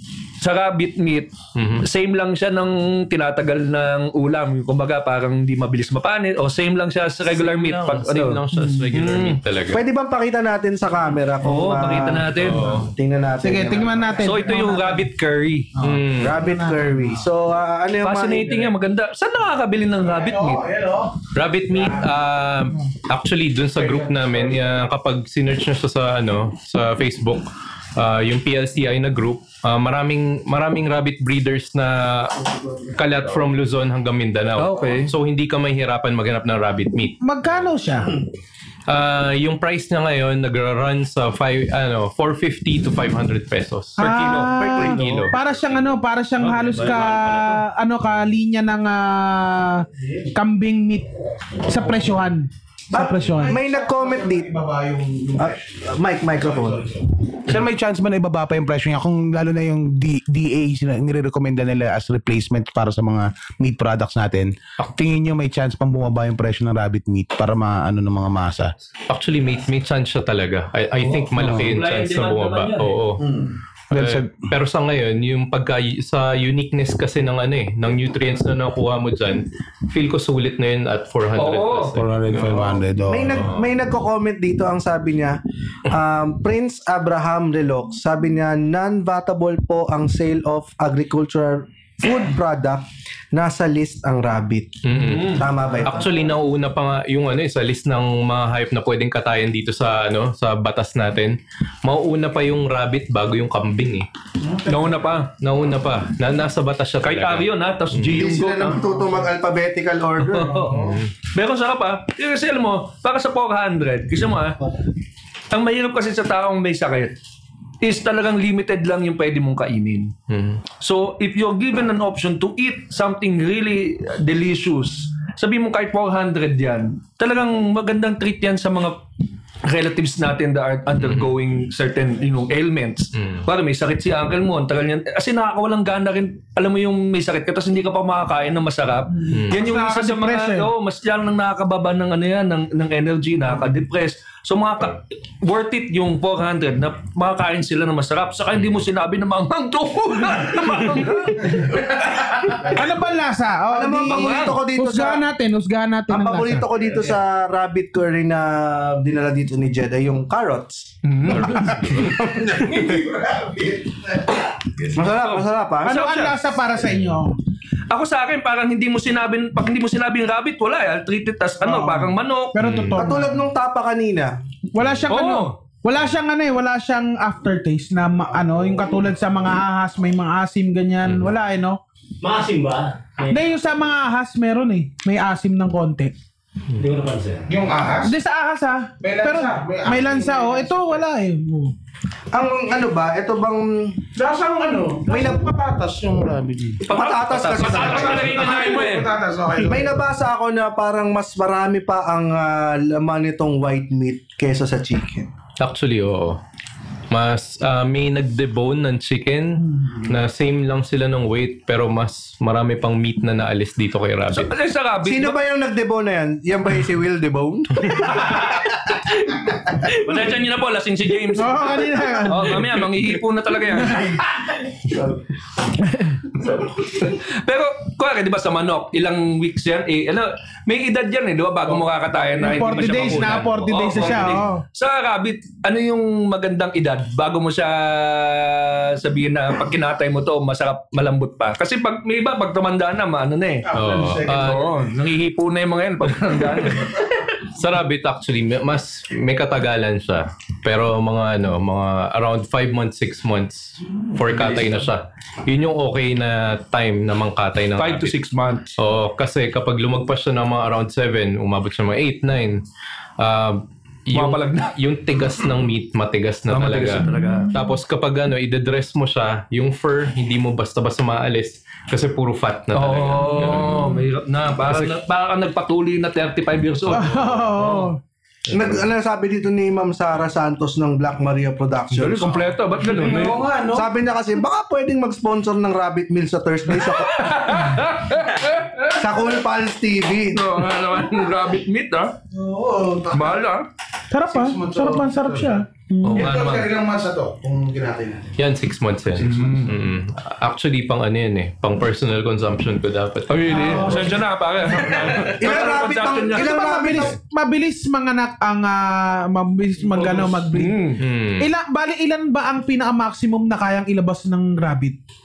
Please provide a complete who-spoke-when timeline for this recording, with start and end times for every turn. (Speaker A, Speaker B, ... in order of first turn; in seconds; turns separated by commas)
Speaker A: 0.4-9.4, Speaker B: 1.5-1.9, Speaker B: 7.2-9.8, Speaker C: 9.7-14.2, Speaker A: 11.4-12.7, Speaker B: 12.3-12.9, Speaker D: 13.4-15.0, Speaker A: 14.2-15.7, Speaker D: 15.8-17.1, Speaker B: 15.8-16.4, Speaker C: 16.2-18.7, Speaker A: 18.0-20.6, Speaker E: 20.2-21.1, Speaker B: 21.3-32.4, Speaker E: 21.7-22.0, Speaker E: 23.8-24.6, Speaker B: 32.9-37.7, Speaker A: 34.6-35.1, Speaker D: 37.2-38.1, Speaker B: 38.9-44.0, Speaker D: 44.0-51.1, Speaker A: 44.0-45.2, Speaker C: 44.6-45.2, Speaker B: 44.6-45.4, Speaker D: 51.6-53.6, Speaker C: 52.9-54.5, Speaker E: 53.3-55.8, Speaker C: 55.4-56.9, Speaker E: 56.4-68.7, Speaker B: 69.1-73.2, Speaker A: 71.1-73.0, Speaker E: 71.3-71.7, Speaker E: 73.9-74.5, Speaker B: 73.9-82.7, Speaker A: 81.3-82.0, Speaker E: 82.0-83.5, Speaker C: 83.1-94.8, Speaker B: 83.3-83.6, Speaker B: 94.8-104.1, Speaker A: 94.9-95.8, Speaker C: 95.3-96.0, Speaker E: 104.4-105.1, Speaker A: 104.7-105.3, Speaker B: 105.4-108.2, Speaker A: 107.0-108.8, Speaker C: 108.1-110.7, Speaker A: 110.2-114.6, Speaker E: 110.6-111.0, Speaker B: 110.7-111.1, Speaker A: 115.5-117.1, Speaker A: 117.8-120.1, Speaker B: 120.3-120.6, Speaker A: 120.7-129.0, Speaker A: 129.6-152.3, Speaker B: 131.0-131.3, Speaker B: 133.1-133.5, Speaker B: 139.3-139.6, Speaker D: 139.4-140.7, Speaker D: 152.6-156.7, Speaker C: 153.7-155.2, Speaker A: 154.1-154.6, Speaker C: 156.1-160.9, Speaker A: 161.0-161.8, Speaker B: 161.5-162.1, Speaker E: 162.3-163.9, Speaker C: 164.9-166.2, Speaker A: 165.0-166.4, Speaker D: 165.8-167.3, Speaker B: 166.8-167.2, Speaker A: 167.9-172.6, Speaker D: 171.6-173.3, Speaker B: 172.6-173.1, Speaker C: 172.9-174.3, Speaker D: 174.7-181.8, Speaker A: 175.1-175.5, Speaker B: 181.0-181.3, Speaker F: 182.2-183.4, Speaker D: 183.3-186.1, Speaker F: 186.8-187.5, Speaker E: 187.5-188.1, Speaker D: 188.0-191.7, Speaker E: 189.0-191.0, Speaker C: 192.3-194.0, Speaker E: 194.2-196.8, Speaker C: 195.1-195.5, Speaker C: 196.8-198.4, Speaker A: 196.9-199.1, Speaker E: 197.6-200.0, Speaker C: 199.6-205.3, Speaker B: 205.6-206.4, Speaker B: 207.1-214.5, Speaker A: 214.3-215.4, Speaker C: 215.0-218.5, Speaker A: 218.2-218.6, Speaker A: 219.2-224.2, Speaker D: 221.3-222.6, Speaker A: 226.4-247.1, Speaker D: 232.4-234.6, Speaker B: 233.1-233.5, Speaker E: 243.6-244.8, Speaker B: 243.7-244.7, Speaker B: 247.5-258.1, Speaker A: 254.3-254.9, Speaker A: 257.8-258.8, Speaker B: 258.8-262.6, Speaker B: 263.2-273.9, Speaker A: 264.1-264.7, Speaker A: 266.5-267.5, Speaker D: 267.1-267.6, Speaker A: 272.7-277.9, Speaker D: 273.6-273.9, Speaker B: 274.6-275.0, Speaker B: 276.9-277.6, Speaker D: 276.9-278.0, Speaker B: 278.5-278.8, Speaker C: 278.5-282.5, Speaker A: 281.9-283.5, Speaker E: 282.9-283.9, Speaker C: 283.6-287.4, Speaker A: 286.8-288.9, Speaker C: 288.9-290.4, Speaker A: 290.3-292.1, Speaker E: 292.3-293.4, Speaker A: 293.1-293.7, Speaker D: 294.1-296.3, Speaker E: 294.2-298.3, Speaker A: 296.1-296.7, Speaker B: 296.1-296.4, Speaker B: 298.4-303.6, Speaker E: 299.2-299.6, Speaker A: 299.2-299.7, Speaker A: 303.3-307.0, Speaker D: 303.5-304.1, Speaker E: 303.6-304.2, Speaker E: 304.7-305.3, Speaker C: 305.2-307.1, Speaker D: 306.3-310.8, Speaker A: 310.0-311.0, Speaker B: 311.0-311.5, Speaker D: 311.4-315.0